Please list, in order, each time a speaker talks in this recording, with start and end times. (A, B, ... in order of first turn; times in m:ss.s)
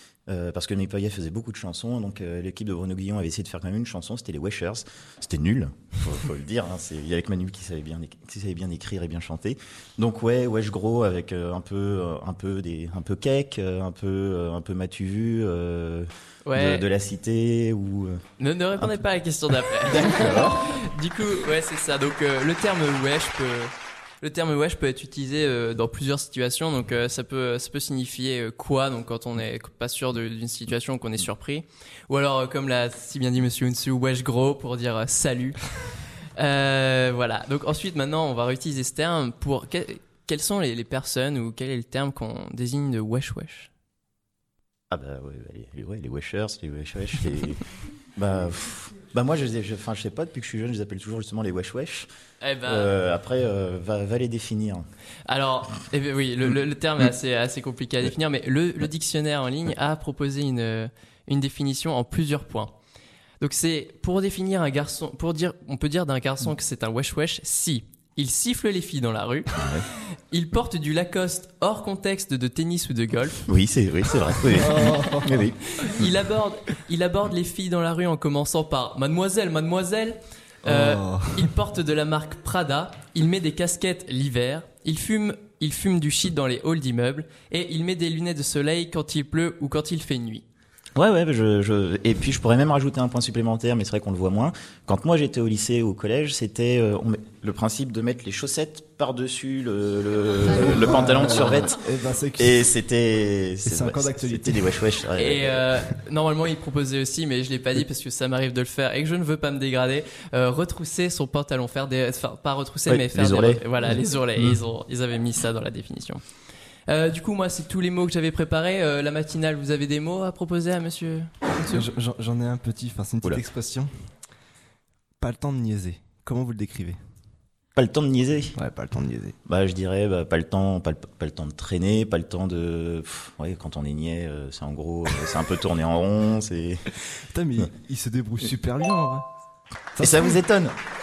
0:00.3-0:18.2 A
0:16.4-0:16.9 B
0:18.4-0:35.6 B
0:19.8-0:20.6 A
0:36.4-0:43.7 B
0:44.9-0:47.6 A
0:48.2-0:52.1 A
0:52.4-0:52.9 B
0:52.6-0:54.9 A
0:55.3-1:02.8 B
1:03.4-1:09.6 B
1:09.5-1:09.8 A
1:10.3-1:13.5 B
1:13.5-1:15.6 A
1:14.6-1:15.5 C
1:15.7-1:30.4 B
1:20.6-1:21.5 C
1:31.0-1:41.8 A
1:40.5-1:42.7 C
1:42.4-1:45.6 A
1:43.6-1:44.8 C
1:45.2-1:56.2 B
1:52.9-1:53.6 A
1:56.9-2:01.8 B
2:01.6-2:03.9 C
2:05.2-2:07.0 C
2:07.8-2:08.6 A
2:08.6-2:09.4 C
2:09.5-2:16.9 A
2:17.2-2:19.3 C
2:20.0-2:20.4 C
2:20.0-2:20.7 A